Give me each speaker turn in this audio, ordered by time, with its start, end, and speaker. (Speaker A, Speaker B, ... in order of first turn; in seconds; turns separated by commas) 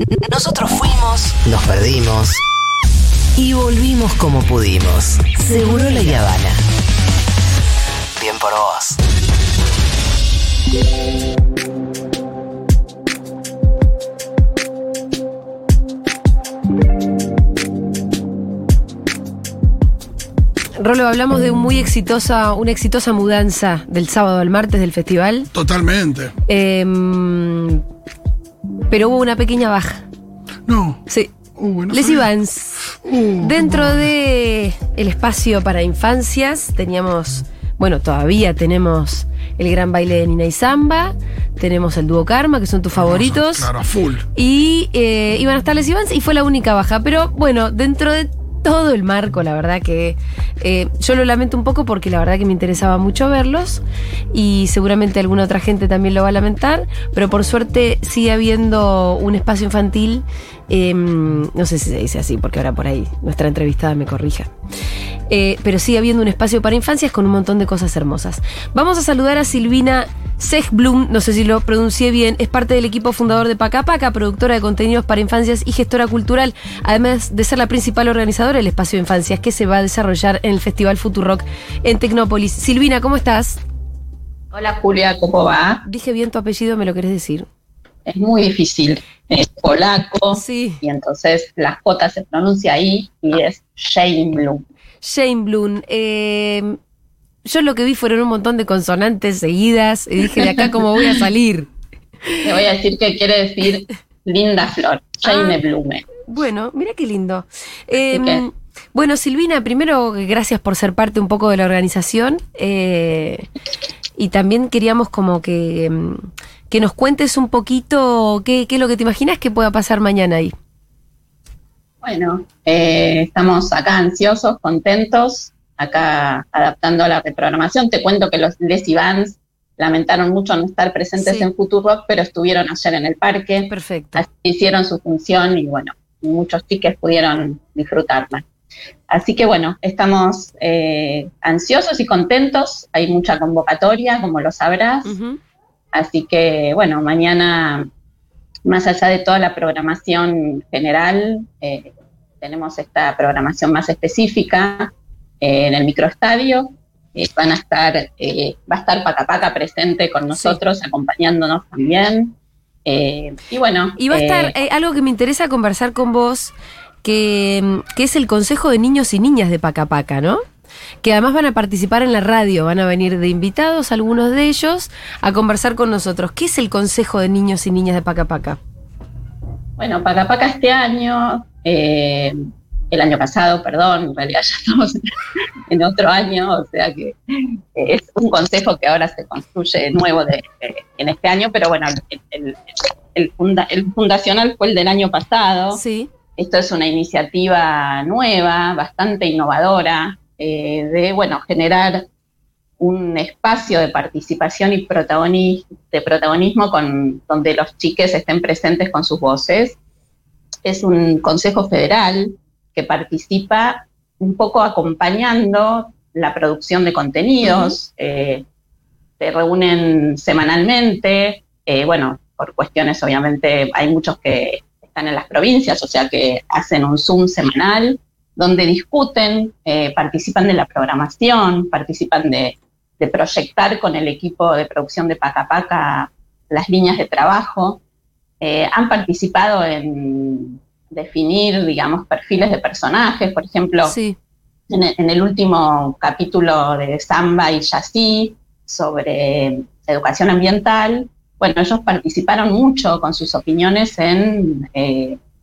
Speaker A: 0.3-2.4, Speaker B: 0.7-1.1, Speaker A: 3.4-6.4, Speaker B: 5.9-6.5, Speaker A: 8.2-9.0, Speaker B: 8.6-8.9, Speaker C: 20.8-25.5, Speaker B: 25.5-26.3, Speaker C: 26.5-27.8, Speaker C: 28.9-30.1, Speaker B: 30.7-31.0, Speaker C: 31.1-31.4, Speaker B: 31.6-32.2, Speaker C: 31.9-43.7, Speaker B: 43.0-44.2, Speaker C: 44.4-64.5, Speaker C: 65.3-83.6, Speaker D: 84.5-85.8, Speaker C: 85.8-87.5, Speaker D: 88.1-94.6, Speaker C: 90.3-90.8, Speaker C: 95.0-96.8, Speaker C: 97.5-101.7, Speaker D: 100.4-101.3, Speaker D: 102.4-106.1, Speaker C: 105.2-105.6, Speaker C: 106.3-113.5, Speaker D: 108.1-108.4, Speaker C: 114.2-120.5, Speaker D: 122.0-138.4, Speaker C: 131.2-131.5, Speaker C: 133.7-134.2, Speaker D: 139.1-145.2, Speaker C: 145.1-145.4, Speaker D: 145.9-147.9, Speaker D: 148.7-162.3, Speaker C: 160.3-160.6, Speaker D: 162.9-164.6, Speaker C: 164.0-170.4, Speaker C: 171.0-178.6, Speaker D: 179.8-182.3, Speaker D: 182.9-185.0, Speaker D: 185.7-187.2, Speaker D: 187.8-195.8, Speaker C: 195.7-196.1, Speaker D: 196.4-202.1, Speaker D: 202.8-209.8, Speaker D: 210.7-218.4, Speaker C: 217.4-217.8, Speaker D: 219.2-237.8, Speaker D: 238.4-244.0, Speaker C: 243.8-244.2, Speaker D: 244.7-255.2